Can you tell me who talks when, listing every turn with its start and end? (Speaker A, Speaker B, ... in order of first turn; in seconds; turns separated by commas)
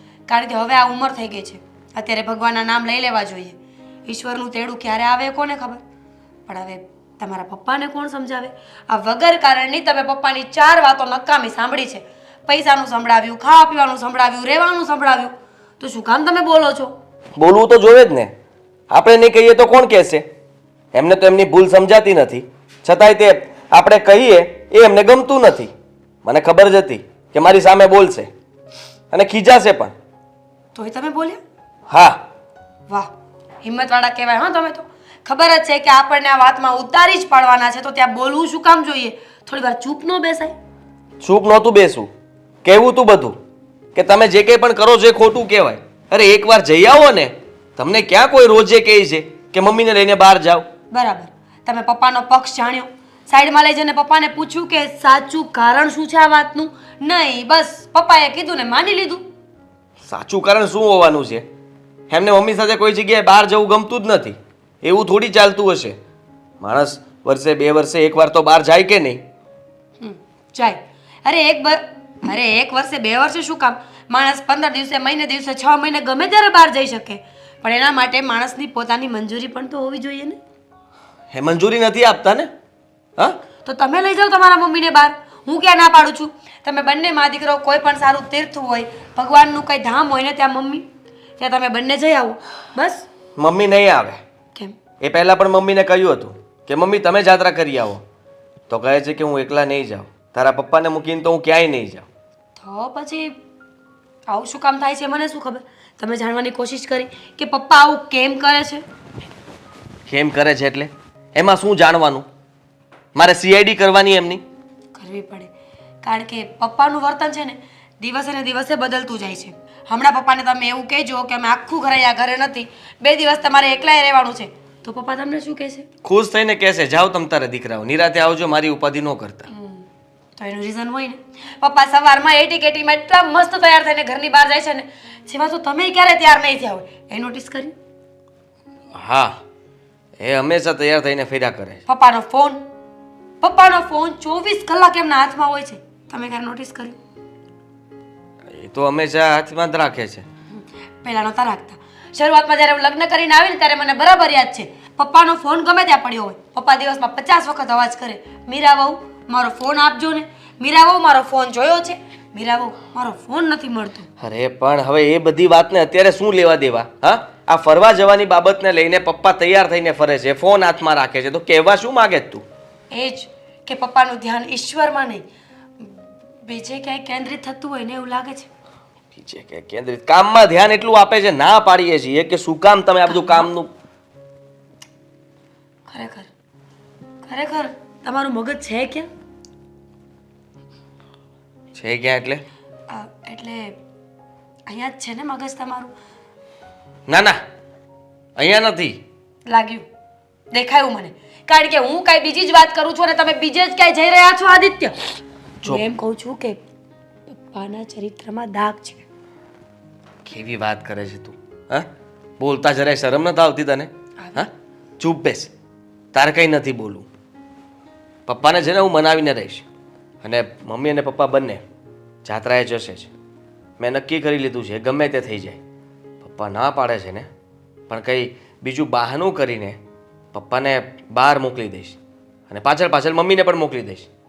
Speaker A: 0.3-5.8, Speaker A: 6.5-16.9, Speaker B: 17.4-18.3, Speaker B: 18.9-20.2, Speaker B: 20.9-25.7, Speaker B: 26.2-28.3, Speaker B: 29.1-29.9, Speaker A: 30.7-31.4, Speaker B: 31.9-32.2, Speaker A: 33.6-40.5, Speaker B: 41.2-42.1, Speaker B: 42.6-43.4, Speaker B: 43.9-50.7, Speaker A: 50.9-59.3, Speaker B: 60.0-61.5, Speaker B: 62.1-66.0, Speaker B: 66.6-69.2, Speaker A: 70.0-80.4, Speaker B: 81.3-82.5, Speaker A: 83.6-90.9, Speaker A: 91.4-93.0, Speaker B: 93.4-94.2, Speaker B: 95.0-98.0, Speaker B: 98.7-102.1, Speaker A: 102.6-103.3, Speaker A: 104.3-108.8, Speaker B: 110.1-112.2, Speaker B: 113.1-114.4, Speaker A: 115.0-115.5, Speaker A: 116.0-125.9, Speaker B: 126.0-129.5, Speaker A: 129.5-129.8, Speaker A: 130.4-137.7, Speaker B: 138.9-139.4, Speaker B: 140.2-141.8, Speaker A: 141.8-142.6, Speaker A: 143.4-147.0, Speaker B: 148.5-150.2, Speaker A: 151.0-164.1, Speaker B: 164.2-172.4, Speaker A: 172.9-175.2, Speaker A: 176.4-178.5, Speaker B: 179.1-183.7, Speaker A: 183.1-183.5, Speaker A: 185.9-186.3, Speaker A: 187.2-189.1, Speaker B: 191.7-192.4, Speaker A: 192.9-193.8, Speaker A: 194.7-195.9, Speaker B: 197.1-197.4, Speaker B: 198.4-199.0, Speaker A: 199.5-199.8, Speaker A: 200.5-205.0, Speaker A: 205.6-206.6, Speaker A: 207.3-209.0, Speaker B: 210.2-211.9, Speaker B: 212.4-215.5, Speaker B: 216.1-217.1, Speaker B: 218.3-219.6, Speaker B: 220.2-221.6, Speaker B: 222.2-223.1, Speaker B: 223.8-225.6, Speaker B: 226.2-227.3, Speaker B: 227.9-229.8, Speaker B: 230.3-232.0, Speaker B: 232.5-234.1